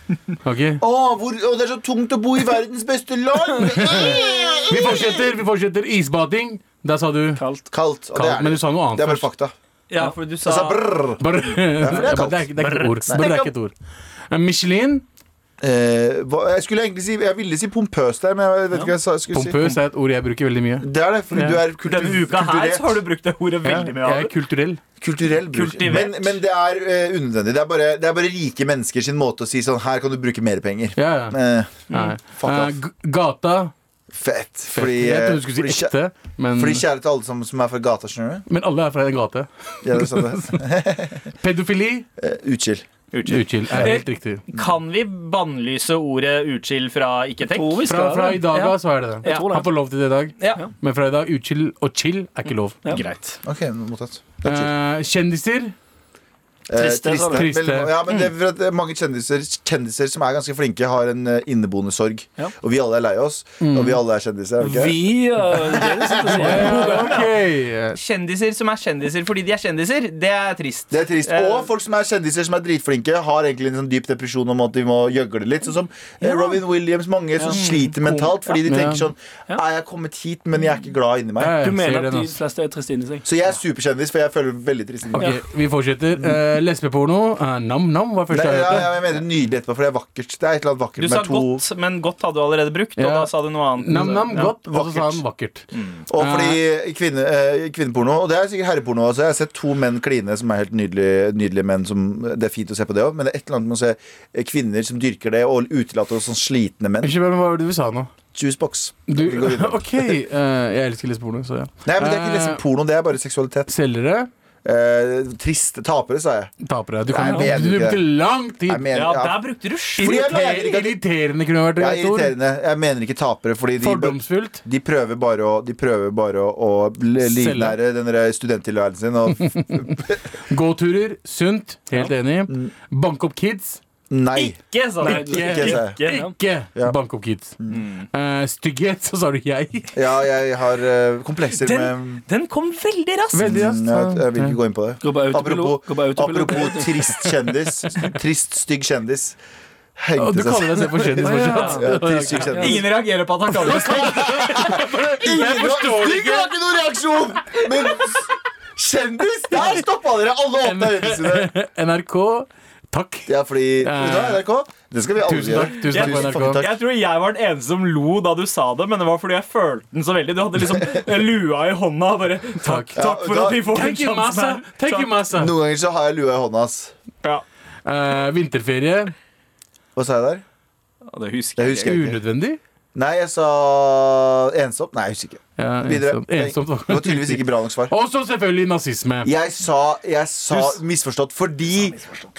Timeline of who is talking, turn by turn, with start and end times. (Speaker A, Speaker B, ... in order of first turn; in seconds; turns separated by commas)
Speaker A: 0.4-0.8, Speaker B: 0.8-5.2, Speaker A: 3.8-4.1, Speaker A: 4.7-7.4, Speaker C: 7.3-7.7, Speaker B: 7.7-9.5, Speaker A: 8.1-9.3, Speaker D: 9.9-10.8, Speaker B: 10.4-11.2, Speaker A: 11.2-13.7, Speaker B: 11.8-12.5, Speaker D: 12.6-13.4, Speaker B: 13.1-13.5, Speaker A: 14.3-15.0, Speaker B: 15.6-19.8, Speaker A: 19.3-21.6, Speaker B: 20.8-23.0, Speaker D: 21.8-24.3, Speaker A: 23.6-24.8, Speaker B: 25.0-31.8, Speaker D: 25.5-26.4, Speaker A: 30.9-31.4, Speaker A: 31.9-33.7, Speaker B: 32.4-32.7, Speaker B: 34.1-35.9, Speaker A: 34.7-36.8, Speaker B: 36.5-38.4, Speaker A: 38.5-40.6, Speaker B: 39.8-41.2, Speaker A: 41.4-42.1, Speaker B: 42.2-42.8, Speaker D: 43.1-47.9, Speaker A: 43.3-44.4, Speaker C: 47.5-48.5, Speaker A: 47.8-52.8, Speaker D: 48.5-49.5, Speaker C: 49.2-49.7, Speaker D: 52.9-53.4, Speaker B: 53.4-54.7, Speaker A: 54.4-55.7, Speaker B: 56.7-65.0, Speaker C: 56.8-57.5, Speaker A: 57.3-58.0, Speaker A: 63.6-64.0, Speaker C: 64.6-67.2, Speaker B: 65.7-66.8, Speaker A: 66.3-68.0, Speaker D: 66.6-67.2, Speaker D: 67.9-71.7, Speaker B: 70.9-81.5, Speaker A: 78.6-79.0, Speaker A: 81.4-82.3, Speaker C: 81.6-83.3, Speaker B: 83.2-85.3, Speaker A: 85.1-89.2, Speaker B: 88.3-91.6, Speaker D: 91.0-94.5, Speaker A: 93.0-96.6, Speaker B: 94.0-95.2, Speaker D: 95.7-96.0, Speaker B: 96.1-107.1, Speaker A: 107.0-108.1, Speaker B: 108.3-110.2, Speaker A: 109.1-112.6, Speaker B: 111.8-113.7, Speaker A: 113.7-114.3, Speaker B: 114.6-116.5, Speaker A: 116.6-118.9, Speaker B: 117.1-118.0, Speaker C: 117.2-117.6, Speaker B: 118.7-119.4, Speaker D: 118.9-120.7, Speaker B: 120.0-121.0, Speaker A: 120.0-122.3, Speaker B: 121.8-130.0, Speaker A: 123.8-124.6, Speaker A: 127.2-127.8, Speaker A: 130.5-133.8, Speaker B: 134.1-134.6, Speaker D: 134.3-136.3, Speaker C: 135.0-136.3, Speaker A: 135.0-140.0, Speaker B: 135.3-135.9, Speaker D: 137.7-138.1, Speaker B: 139.9-142.2, Speaker D: 141.6-143.6, Speaker A: 143.3-144.6, Speaker B: 143.5-149.4, Speaker C: 145.0-147.0, Speaker B: 150.0-152.8, Speaker A: 150.2-152.7, Speaker C: 151.2-152.8, Speaker D: 151.2-151.8, Speaker D: 152.6-154.3, Speaker A: 153.5-156.5, Speaker B: 153.8-161.5, Speaker A: 160.6-164.5, Speaker B: 163.3-166.8, Speaker A: 165.2-166.6, Speaker D: 165.9-175.1, Speaker A: 172.6-172.9, Speaker B: 172.9-173.7, Speaker A: 173.7-175.5, Speaker B: 175.3-176.9, Speaker A: 177.8-179.1, Speaker B: 179.9-180.4, Speaker D: 181.1-181.9, Speaker B: 181.6-182.2, Speaker A: 181.8-182.6, Speaker B: 182.9-187.9, Speaker A: 185.6-189.3, Speaker B: 189.2-192.1, Speaker D: 190.5-190.8